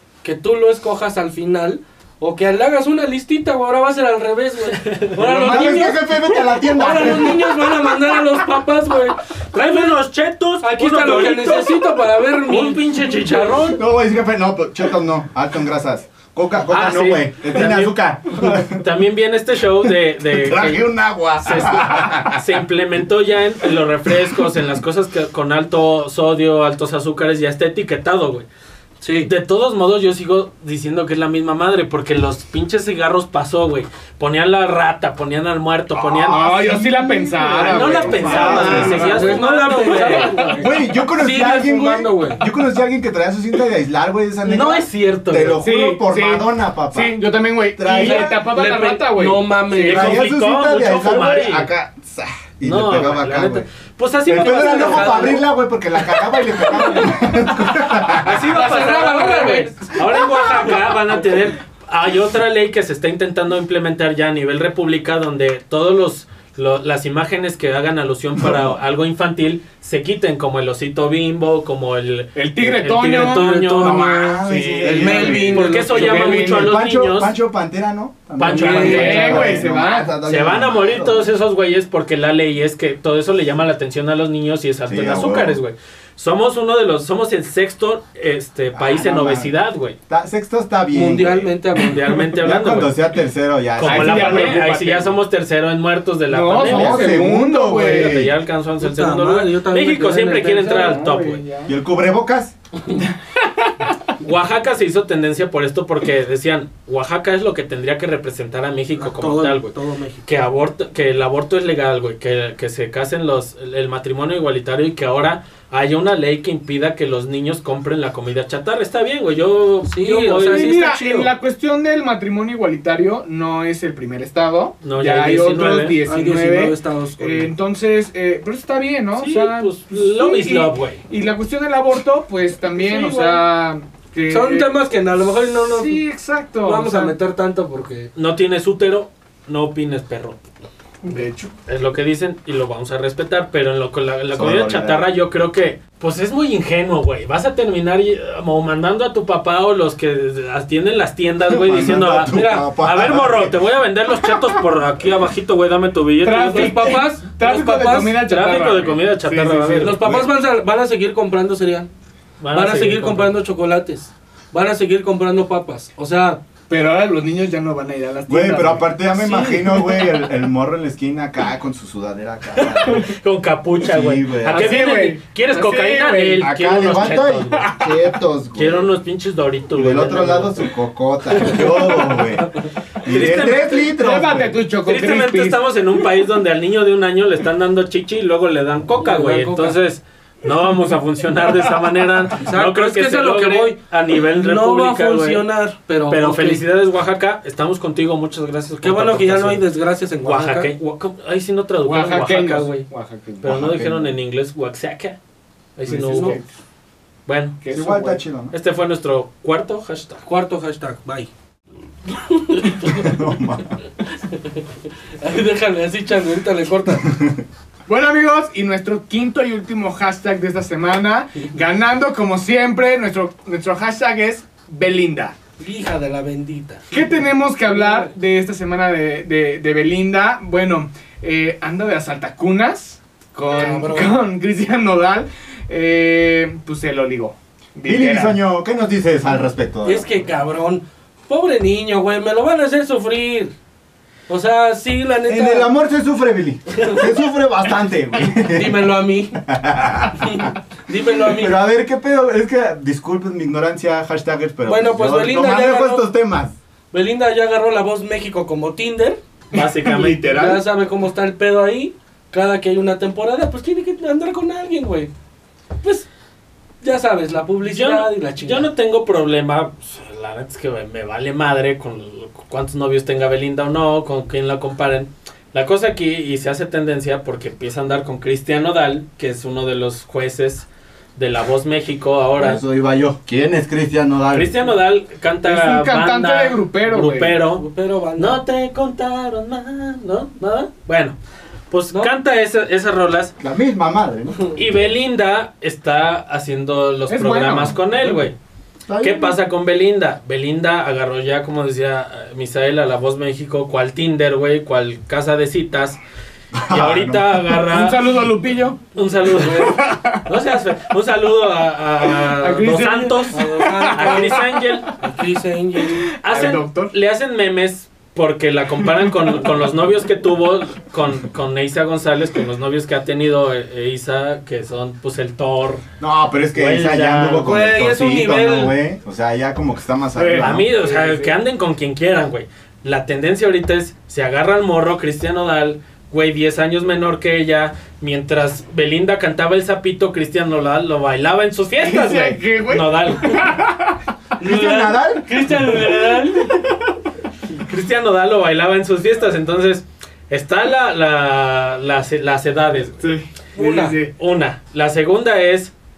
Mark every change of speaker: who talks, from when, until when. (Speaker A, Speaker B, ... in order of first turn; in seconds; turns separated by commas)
Speaker A: 0.2-10.0, Speaker B: 4.8-5.8, Speaker C: 5.2-7.8, Speaker B: 9.5-11.8, Speaker A: 10.6-13.6, Speaker B: 12.4-13.8, Speaker C: 13.8-18.9, Speaker B: 16.7-20.9, Speaker C: 19.8-22.4, Speaker B: 21.4-28.5, Speaker A: 29.0-29.3, Speaker B: 29.2-40.4, Speaker D: 36.2-40.7, Speaker C: 37.5-39.4, Speaker A: 38.4-42.4, Speaker C: 40.6-47.2, Speaker B: 44.4-45.6, Speaker D: 45.6-50.1, Speaker C: 47.7-48.5, Speaker A: 47.9-50.2, Speaker C: 49.9-53.7, Speaker B: 49.9-51.7, Speaker B: 52.6-55.4, Speaker C: 54.3-58.5, Speaker A: 54.3-55.4, Speaker B: 58.2-74.0, Speaker A: 58.3-59.8, Speaker D: 58.4-59.7, Speaker D: 72.4-76.7, Speaker A: 73.2-76.6, Speaker C: 73.8-75.7, Speaker B: 75.5-77.3, Speaker C: 76.3-81.3, Speaker B: 78.4-79.6, Speaker A: 78.5-79.4, Speaker D: 78.7-80.1, Speaker B: 80.2-90.0, Speaker C: 84.9-85.6, Speaker C: 88.7-89.5, Speaker C: 90.1-91.5, Speaker A: 90.9-92.1, Speaker B: 91.8-93.0, Speaker C: 92.4-94.8, Speaker B: 93.8-101.4, Speaker D: 93.8-95.1, Speaker D: 96.3-98.2, Speaker C: 96.6-98.3, Speaker A: 98.8-100.8, Speaker D: 100.5-101.7, Speaker C: 101.7-102.5, Speaker B: 104.2-120.8, Speaker A: 109.0-110.2, Speaker A: 119.9-121.3, Speaker D: 120.5-134.7, Speaker B: 124.8-126.0, Speaker A: 126.0-127.5, Speaker B: 129.2-131.0, Speaker A: 132.7-133.5, Speaker A: 134.3-136.0, Speaker D: 135.7-137.2, Speaker A: 136.6-138.1, Speaker B: 138.2-140.4, Speaker D: 141.0-141.5, Speaker B: 141.7-156.9, Speaker C: 144.3-145.1, Speaker C: 151.5-153.6, Speaker A: 152.3-152.7, Speaker D: 156.2-160.0, Speaker A: 156.4-158.2, Speaker B: 158.2-160.0, Speaker A: 159.8-161.9, Speaker C: 160.0-160.3, Speaker B: 162.4-163.3, Speaker A: 162.5-166.4, Speaker D: 166.7-170.2, Speaker C: 168.3-173.1, Speaker B: 172.6-177.7, Speaker C: 173.8-174.9, Speaker D: 174.5-176.5, Speaker C: 176.4-178.9, Speaker B: 178.6-180.6, Speaker C: 179.7-182.5, Speaker C: 183.0-184.6, Speaker B: 183.1-184.0, Speaker D: 183.9-185.6, Speaker B: 184.8-195.4, Speaker A: 189.0-189.8, Speaker A: 192.4-193.8, Speaker A: 194.3-196.6, Speaker B: 196.1-199.6, Speaker A: 198.8-200.7, Speaker B: 200.2-202.9, Speaker D: 201.8-203.6, Speaker B: 203.4-205.2, Speaker C: 203.4-204.1, Speaker B: 205.8-206.4, Speaker D: 205.9-206.5, Speaker A: 205.9-206.4, Speaker B: 207.3-207.6, Speaker D: 207.6-208.2, Speaker C: 207.7-208.5, Speaker B: 208.5-210.2, Speaker A: 210.3-211.3, Speaker A: 212.1-213.2, Speaker C: 212.9-213.8, Speaker A: 214.3-214.7, Speaker A: 215.2-217.1, Speaker C: 217.1-217.4, Speaker D: 217.9-225.4, Speaker A: 225.6-227.0, Speaker D: 226.9-238.4, Speaker A: 227.7-228.1, Speaker A: 233.5-234.2, Speaker C: 237.9-240.1, Speaker A: 239.8-243.5, Speaker A: 244.3-245.7, Speaker C: 245.3-248.8, Speaker A: 246.8-247.1, Speaker A: 248.3-249.4, Speaker C: 249.5-250.4, Speaker A: 250.2-251.6, Speaker C: 251.3-256.6, Speaker A: 254.6-256.1, Speaker A: 256.9-259.2, Speaker B: 259.5-260.5, Speaker D: 259.5-260.6, Speaker A: 260.3-265.1, Speaker A: 266.8-268.7, Speaker B: 267.7-282.6, Speaker C: 282.4-284.6, Speaker B: 284.3-287.6, Speaker D: 285.4-287.4, Speaker A: 287.6-288.4, Speaker B: 288.2-291.2, Speaker B: 291.7-293.4, Speaker C: 293.4-294.4, Speaker B: 294.6-298.4, Speaker D: 297.1-297.8, Speaker C: 298.9-299.4, Speaker B: 299.0-306.0, Speaker C: 306.5-307.6, Speaker B: 306.7-308.1, Speaker D: 307.7-310.3, Speaker B: 308.9-314.9, Speaker A: 309.5-309.8, Speaker D: 312.1-314.9, Speaker A: 313.3-314.4, Speaker A: 315.0-316.1, Speaker D: 315.8-316.9, Speaker B: 316.2-325.8, Speaker C: 326.0-330.6, Speaker B: 326.6-327.6, Speaker A: 327.4-328.7, Speaker D: 330.1-331.4, Speaker B: 330.4-343.4, Speaker D: 341.8-344.0, Speaker A: 344.4-346.7, Speaker C: 344.4-345.6, Speaker D: 345.9-346.7, Speaker B: 347.6-353.1, Speaker D: 352.9-354.1, Speaker A: 353.6-354.0, Speaker B: 354.2-355.7